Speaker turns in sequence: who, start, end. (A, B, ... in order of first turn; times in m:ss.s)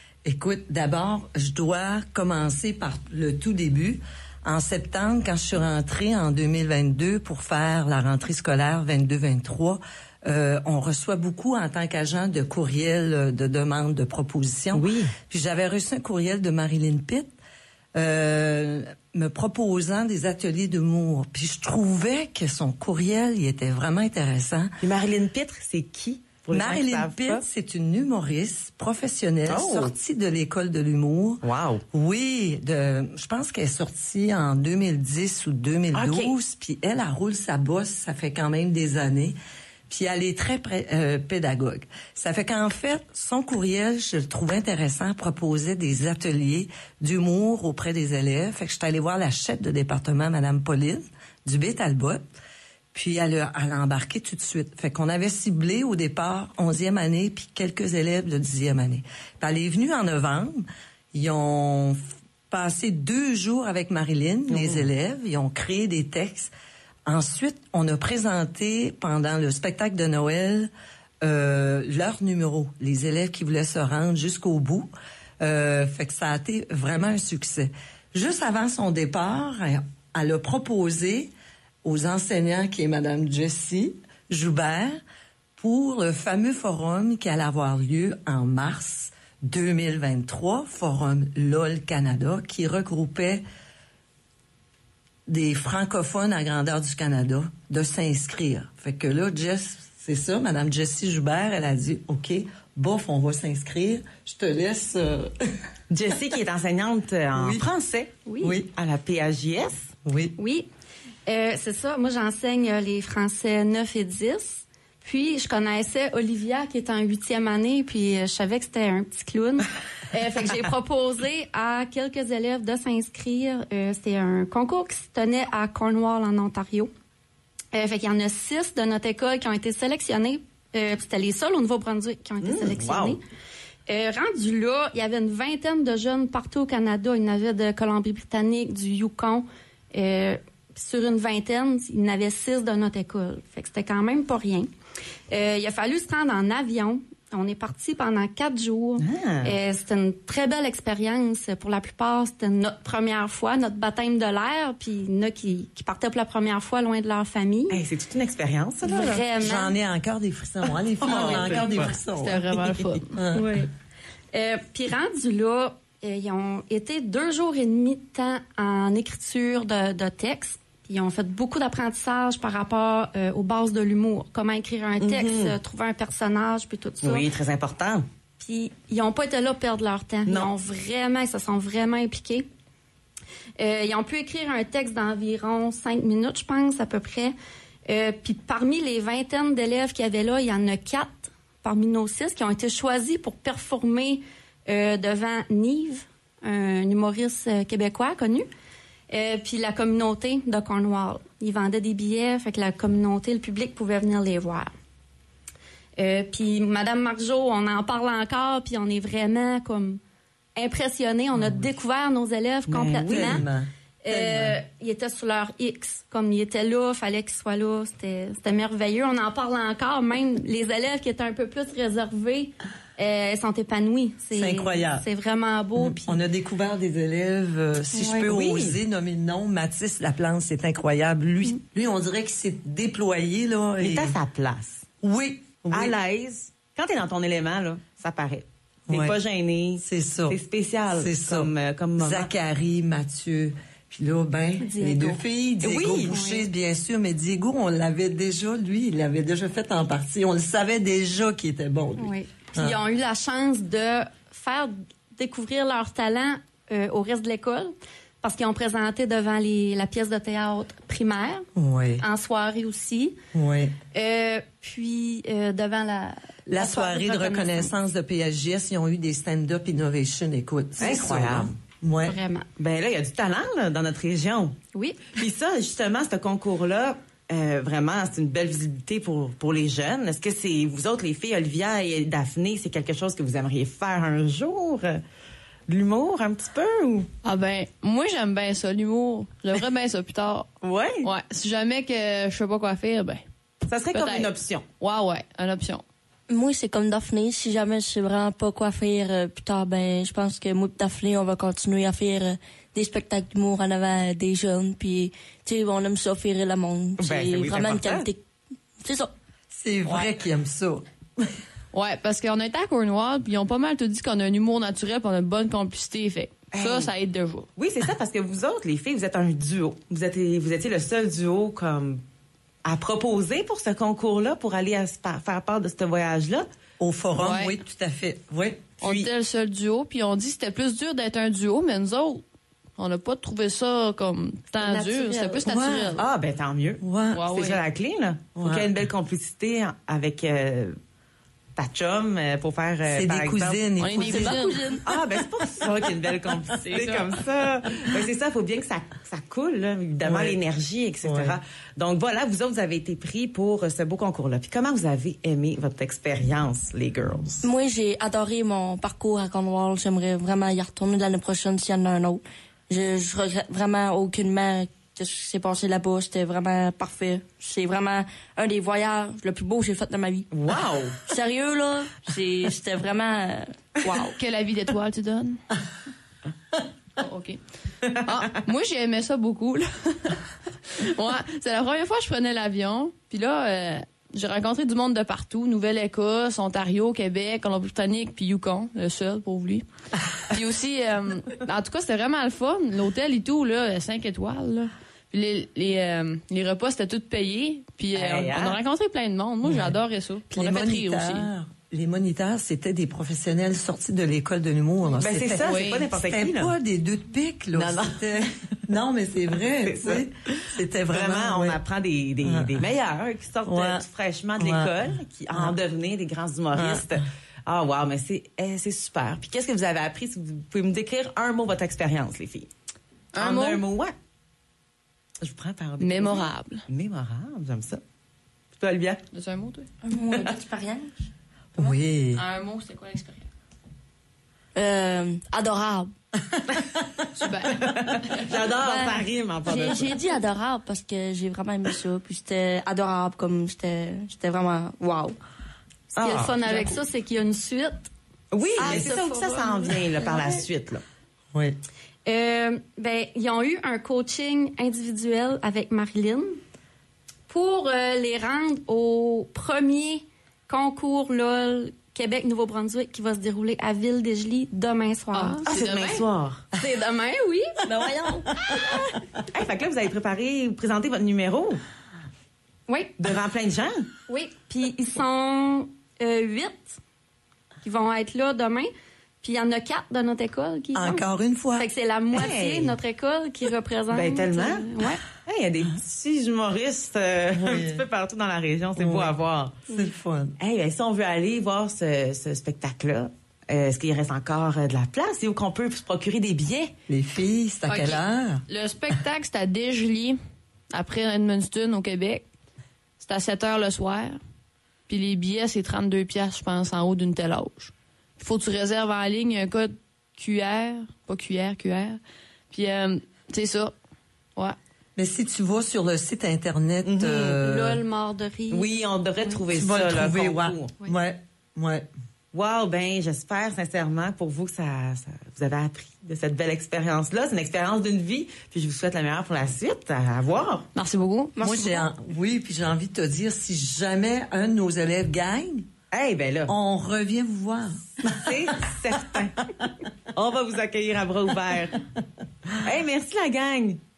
0:00.2-0:17.3 A
0:14.7-0:15.1 B
0:17.9-0:24.7 A
0:24.8-0:27.4 B
0:26.5-0:39.3 A
0:29.4-0:29.9 B
0:31.4-0:31.8 B
0:35.9-0:36.3 B
0:39.9-0:52.2 A
0:52.9-1:02.0 A
1:02.5-1:06.5 A
1:04.5-1:04.8 B
1:07.0-1:10.7 A
1:11.2-1:14.9 A
1:15.4-1:21.3 A
1:21.8-1:25.0 A
1:25.6-1:33.4 A
1:35.3-1:45.3 A
1:45.9-1:48.1 B
1:47.3-1:47.6 A
1:48.2-1:48.6 C
1:48.4-1:48.7 A
1:48.7-1:49.9 B
1:50.0-1:50.4 A
1:50.4-1:50.7 C
1:51.3-2:06.9 C
2:07.7-2:13.2 C
2:12.4-2:13.2 B
2:13.9-2:24.7 C
2:25.3-2:37.8 C
2:29.0-2:29.6 B
2:37.7-2:39.2 B
2:38.8-2:39.7 C
2:39.4-2:42.5 A
2:41.0-2:41.9 B
2:41.2-2:43.2 D
2:43.2-2:43.5 A
2:43.3-2:43.7 C
2:44.3-2:57.2 C
2:55.0-2:55.5 B
2:57.0-2:58.0 B
2:58.4-3:02.4 C
3:03.6-3:07.3 C
3:07.9-3:18.4 C
3:19.1-3:24.7 C
3:26.0-3:30.0 C
3:30.6-3:33.4 C
3:31.3-3:31.7 A
3:32.7-3:33.4 B
3:33.0-3:34.6 A
3:34.0-3:46.2 C
3:44.3-3:45.0 A
3:45.8-3:54.2 A
3:48.0-3:48.8 B
3:53.8-3:54.8 B
3:55.0-3:56.0 A
3:55.7-4:02.3 B
3:58.9-3:59.2 A
3:59.8-4:00.4 A
4:00.9-4:12.8 A
4:04.6-4:05.2 C
4:05.6-4:06.1 B
4:06.1-4:06.4 C
4:12.0-4:21.4 C
4:21.5-4:22.0 A
4:22.0-4:23.2 C
4:23.3-4:23.8 A
4:23.9-4:27.7 C
4:26.5-4:32.2 A
4:30.8-4:31.5 B
4:32.0-4:32.4 C
4:32.6-4:34.5 B
4:34.7-4:35.1 C
4:35.1-4:45.0 B
4:45.7-4:47.1 B
4:47.2-4:50.5 D
4:50.6-4:51.1 B
4:51.0-4:53.2 D
4:53.7-4:54.6 B
4:53.9-4:55.8 D
4:56.3-5:08.2 E
5:07.0-5:08.1 B
5:08.8-5:09.1 E
5:09.5-5:10.8 A
5:11.7-5:17.5 D
5:16.5-5:16.9 B
5:17.6-5:22.0 B
5:22.6-5:26.4 B
5:26.8-5:28.6 A
5:27.2-5:27.6 D
5:28.8-5:32.2 D
5:28.8-5:29.1 B
5:32.8-5:36.0 D
5:34.6-5:35.4 C
5:35.4-5:36.0 A
5:36.0-5:40.8 B
5:36.8-5:37.3 A
5:37.1-5:37.6 D
5:38.4-5:38.7 A
5:41.6-5:43.6 B
5:42.8-5:44.5 A
5:43.8-5:44.7 D
5:43.8-5:44.8 E
5:44.8-5:57.5 B
5:46.6-5:47.1 D
5:50.0-5:50.4 A
5:51.0-5:51.4 A
5:57.4-6:10.3 E
6:10.3-6:11.0 B
6:11.0-6:14.1 E
6:14.0-6:15.4 D
6:17.0-6:17.4 D
6:17.9-6:29.6 D
6:30.2-6:41.3 D
6:37.9-6:38.6 B
6:39.4-6:39.7 A
6:40.3-6:51.6 A
6:45.0-6:46.5 B
6:45.4-6:45.9 D
6:47.5-6:48.2 B
6:49.6-7:02.5 B
6:52.2-6:52.6 A
6:53.4-6:53.8 A
6:54.4-6:54.7 A
6:56.5-6:56.9 A
7:03.1-7:03.6 D
7:03.2-7:03.9 B
7:05.2-7:07.8 B
7:05.8-7:06.6 D
7:08.5-7:09.0 B
7:09.1-7:09.7 D
7:09.8-7:11.0 E
7:11.6-7:12.2 A
7:12.1-7:13.3 D
7:14.5-7:15.9 E
7:17.2-7:18.3 D
7:17.4-7:20.0 B
7:18.5-7:25.2 E
7:25.9-7:26.4 B
7:26.0-7:27.9 C
7:26.4-7:26.8 D
7:28.3-7:30.8 B
7:28.6-7:29.7 C
7:28.6-7:28.8 E
7:32.0-7:36.4 C
7:37.3-7:45.4 C
7:45.1-7:46.0 D
7:45.4-7:46.4 B
7:46.5-7:47.7 C
7:47.6-7:48.3 E
7:48.4-7:48.8 A
7:49.3-7:51.6 B
7:52.7-7:52.9 C
7:53.0-7:53.8 B
7:54.1-7:56.8 C
7:57.6-7:58.7 C
7:59.2-8:05.0 C
8:00.7-8:01.7 A
8:02.1-8:02.8 B
8:03.9-8:09.6 B
8:07.3-8:07.8 A
8:08.8-8:09.2 A
8:09.7-8:10.4 A
8:10.4-8:16.7 B
8:16.9-8:18.4 A
8:17.7-8:20.2 D
8:20.7-8:22.2 D
8:23.0-8:24.2 D
8:24.9-8:32.0 D
8:32.5-8:33.7 D
8:35.0-8:37.8 A
8:36.8-8:37.3 B
8:37.3-8:38.7 C
8:38.5-8:40.7 B
8:39.5-8:41.9 A
8:42.3-8:50.7 B
8:50.7-8:51.3 D
8:51.3-8:51.8 E
8:51.4-8:55.6 A
8:55.9-8:56.5 B
8:56.5-8:58.0 A
8:58.0-8:59.5 B
9:00.1-9:01.8 B
9:02.6-9:03.8 B